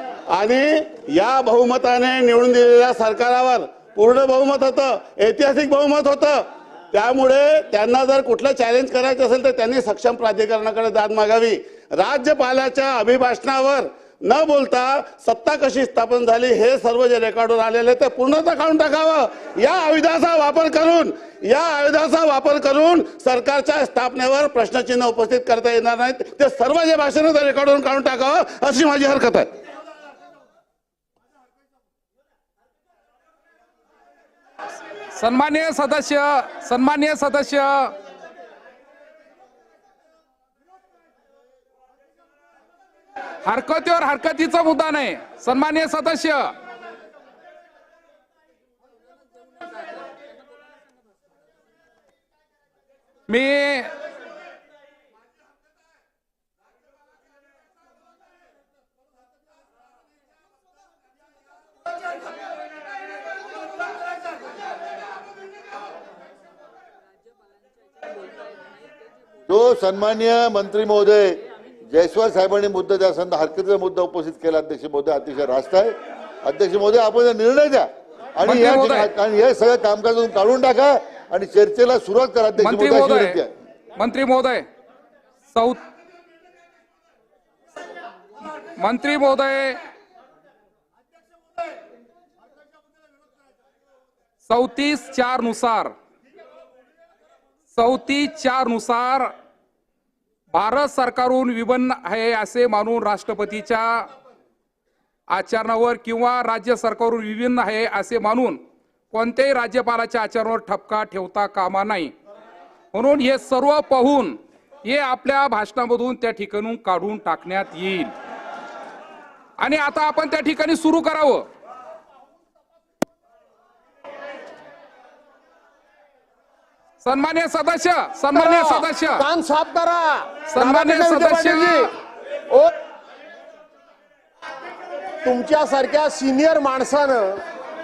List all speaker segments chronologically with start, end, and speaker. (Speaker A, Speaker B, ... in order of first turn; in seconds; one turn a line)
Speaker A: 0.3-29.5
Speaker B: 35.1-38.0
Speaker B: 43.4-46.5
Speaker B: 53.3-53.9
Speaker C: 69.5-83.5
Speaker B: 78.4-79.1
Speaker B: 82.6-83.4
Speaker B: 84.0-84.7
Speaker B: 85.5-85.8
Speaker B: 88.8-89.8
Speaker B: 94.5-95.9
Speaker B: 97.7-99.3
Speaker B: 100.5-104.1
Speaker B: 105.3-112.1
Speaker B: 112.9-118.1
Speaker B: 119.6-121.5
Speaker B: 127.0-129.2
Speaker D: 128.3-131.9
Speaker B: 130.5-131.9
Speaker D: 135.2-137.4